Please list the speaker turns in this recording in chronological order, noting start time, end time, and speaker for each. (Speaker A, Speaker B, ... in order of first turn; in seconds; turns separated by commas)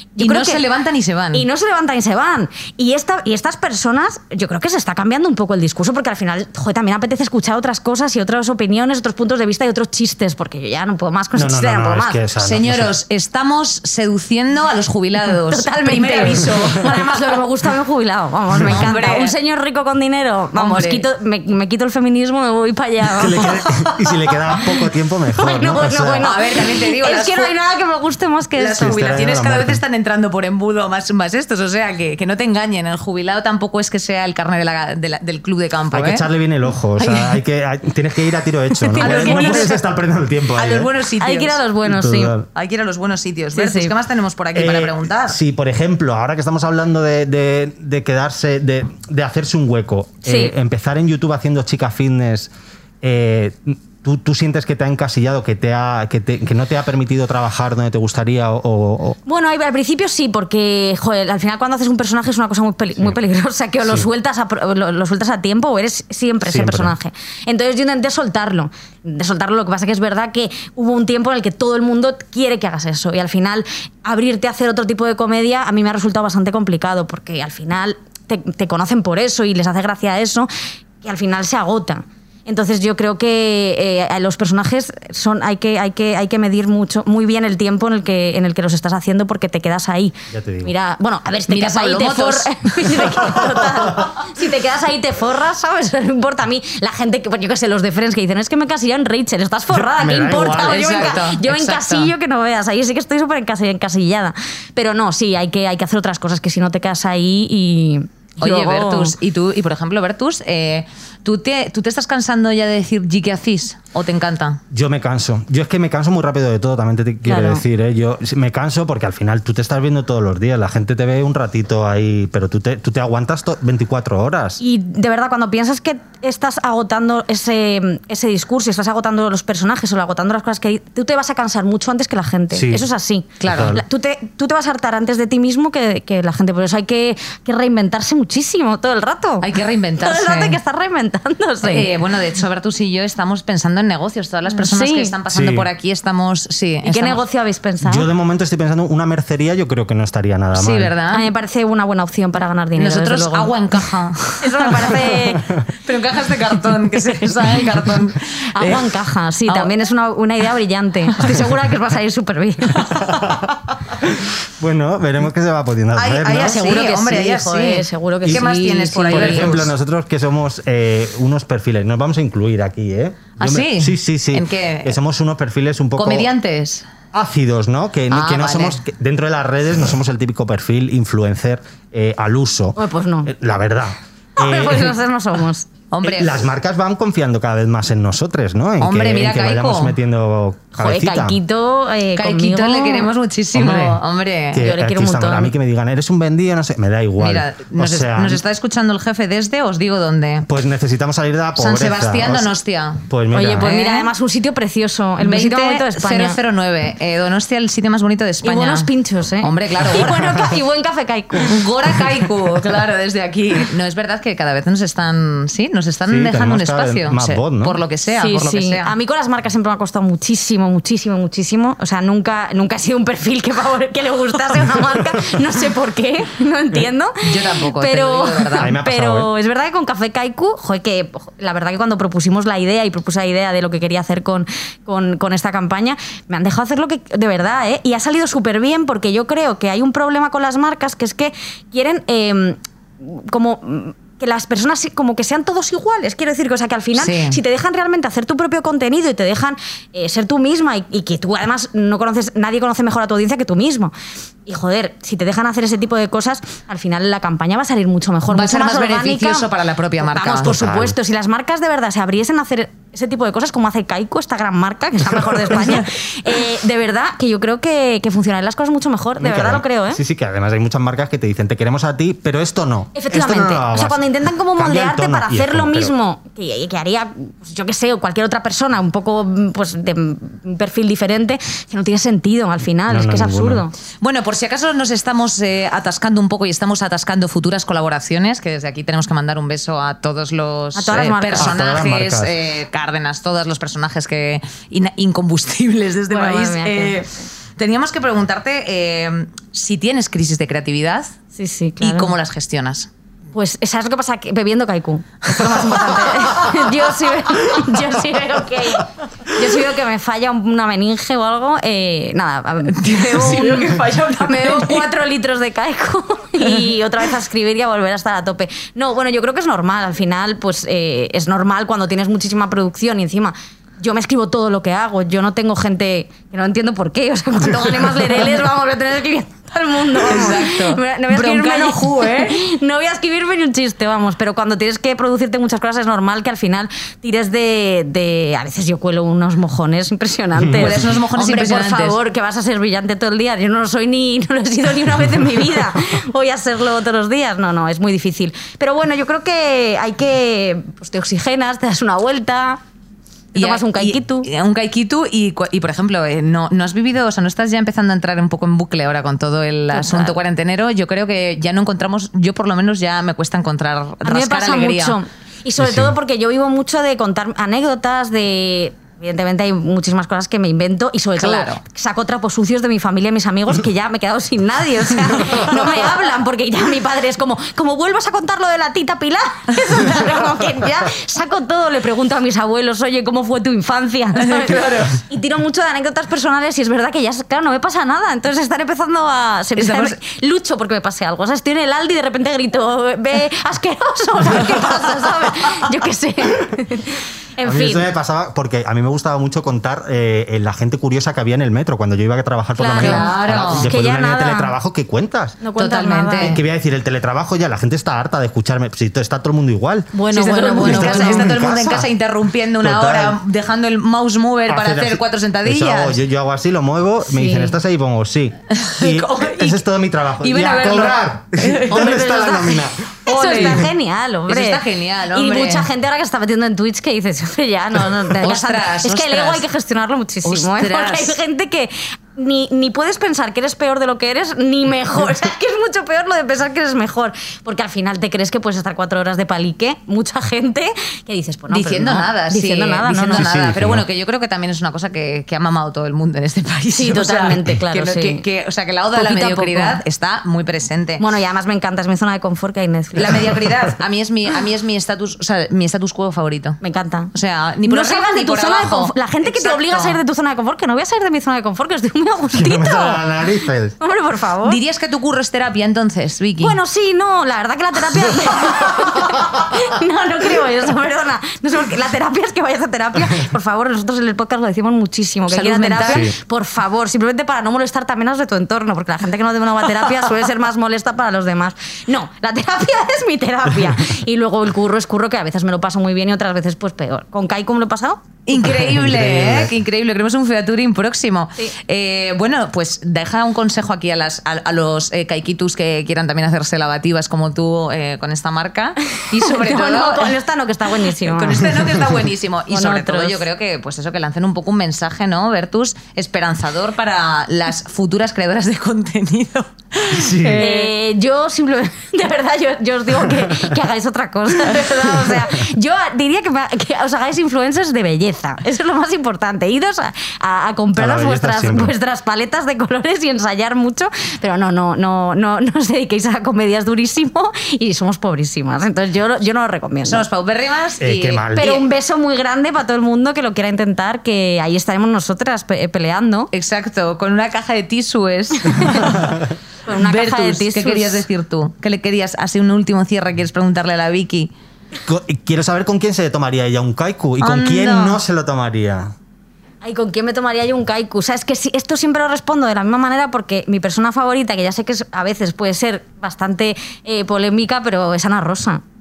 Speaker A: 0.1-0.6, Speaker B: 0.2-1.4, Speaker A: 1.3-12.2, Speaker C: 11.3-12.9, Speaker B: 12.4-17.1, Speaker A: 15.5-24.0, Speaker B: 18.6-19.3, Speaker B: 20.5-21.0, Speaker C: 23.2-26.3, Speaker A: 25.4-28.9, Speaker B: 26.2-27.5, Speaker B: 28.6-36.3, Speaker C: 28.7-29.8, Speaker C: 35.9-40.9, Speaker B: 37.0-37.4, Speaker A: 38.8-39.7, Speaker B: 39.0-39.8, Speaker B: 40.5-41.6, Speaker A: 41.2-42.4, Speaker C: 41.8-42.5, Speaker B: 42.5-45.4, Speaker A: 43.5-43.9, Speaker C: 44.5-59.2, Speaker A: 50.2-50.5, Speaker A: 59.2-80.5, Speaker C: 66.5-66.9, Speaker A: 81.0-109.1, Speaker C: 90.3-90.7, Speaker B: 91.5-93.4, Speaker C: 99.7-101.0, Speaker B: 100.5-102.1, Speaker B: 108.4-114.6, Speaker C: 114.7-124.6, Speaker A: 117.2-117.6, Speaker A: 124.6-139.5, Speaker C: 132.5-132.8, Speaker B: 133.4-133.8, Speaker C: 133.5-133.8, Speaker B: 139.4-140.6, Speaker A: 140.0-141.9, Speaker B: 141.6-147.2, Speaker A: 144.5-145.1, Speaker C: 145.3-145.7, Speaker A: 146.8-148.1, Speaker C: 147.8-150.9, Speaker B: 150.5-151.3, Speaker A: 151.1-153.5, Speaker B: 152.8-155.2, Speaker A: 154.4-155.5, Speaker B: 155.8-158.8, Speaker A: 157.2-157.7, Speaker A: 158.6-163.2, Speaker B: 159.5-159.7, Speaker C: 162.9-166.6, Speaker B: 165.9-169.7, Speaker A: 166.3-169.6, Speaker C: 169.1-176.3, Speaker B: 173.4-175.0, Speaker B: 176.0-176.8, Speaker C: 177.1-184.9, Speaker B: 178.1-178.8, Speaker A: 182.8-183.3, Speaker A: 184.4-185.7, Speaker B: 185.9-186.4, Speaker C: 186.0-191.4, Speaker B: 188.8-189.9, Speaker A: 190.8-193.1, Speaker B: 192.1-194.7, Speaker C: 193.5-194.0, Speaker C: 194.5-198.4, Speaker A: 194.6-195.5, Speaker B: 197.2-200.5, Speaker C: 200.5-202.5, Speaker B: 201.6-203.1, Speaker C: 203.1-203.8, Speaker A: 203.3-206.4, Speaker B: 203.6-204.1, Speaker B: 205.2-210.5, Speaker A: 208.4-211.6, Speaker B: 211.4-218.9, Speaker C: 216.1-217.8, Speaker A: 218.1-253.9, Speaker B: 227.2-228.7, Speaker C: 228.6-229.3, Speaker B: 246.9-247.4, Speaker A: 254.4-270.0, Speaker B: 258.3-260.6, Speaker C: 260.4-260.9, Speaker C: 269.2-274.0, Speaker A: 272.9-283.7, Speaker C: 274.6-275.9, Speaker C: 282.9-283.6, Speaker B: 284.0-301.1, Speaker A: 290.7-291.6, Speaker C: 291.4-292.3, Speaker A: 296.1-297.1, Speaker A: 301.3-302.1, Speaker B: 301.8-302.9, Speaker A: 303.3-352.6, Speaker B: 312.7-314.9, Speaker B: 330.0-332.4, Speaker C: 340.4-340.8, Speaker B: 340.6-342.0, Speaker A: 353.3-354.3, Speaker B: 353.3-365.0, Speaker A: 359.7-360.1, Speaker A: 364.0-397.9, Speaker C: 365.6-365.9, Speaker B: 371.2-371.6, Speaker B: 384.2-385.0, Speaker B: 389.6-389.9, Speaker C: 397.4-405.4, Speaker A: 402.6-404.6, Speaker B: 402.8-403.7, Speaker A: 405.4-406.4, Speaker B: 405.6-406.4, Speaker C: 406.2-409.9, Speaker A: 409.9-411.4, Speaker B: 410.1-416.0, Speaker C: 410.6-411.9, Speaker C: 412.6-413.2, Speaker C: 414.5-422.9, Speaker A: 417.1-417.5, Speaker B: 418.5-419.6, Speaker B: 420.2-421.9, Speaker A: 421.6-443.3, Speaker B: 423.1-423.7, Speaker B: 424.3-425.7, Speaker B: 428.2-429.4, Speaker B: 430.2-431.2, Speaker B: 441.5-451.0, Speaker C: 443.1-443.8, Speaker A: 446.7-448.2, Speaker A: 448.9-449.8, Speaker A: 451.0-453.3, Speaker B: 452.9-456.6, Speaker A: 456.6-457.1, Speaker B: 457.1-460.0, Speaker A: 457.6-463.1, Speaker C: 462.3-463.7, Speaker A: 463.8-464.6, Speaker B: 464.4-466.6, Speaker A: 466.4-488.0, Speaker B: 475.3-476.1, Speaker C: 475.9-476.1, Speaker B: 488.3-500.2, Speaker C: 488.4-489.5, Speaker A: 499.1-501.6, Speaker B: 500.8-510.7, Speaker A: 502.5-503.2, Speaker C: 509.9-510.5, Speaker A: 510.2-530.0, Speaker C: 513.2-513.5, Speaker C: 514.5-515.2, Speaker C: 520.8-521.7, Speaker B: 529.8-531.6, Speaker C: 530.8-531.4, Speaker A: 531.3-536.3, Speaker B: 536.3-539.1, Speaker A: 538.5-539.1, Speaker A: 539.6-541.0, Speaker B: 539.7-544.3, Speaker C: 544.8-548.9, Speaker B: 547.2-548.0, Speaker A: 549.6-558.6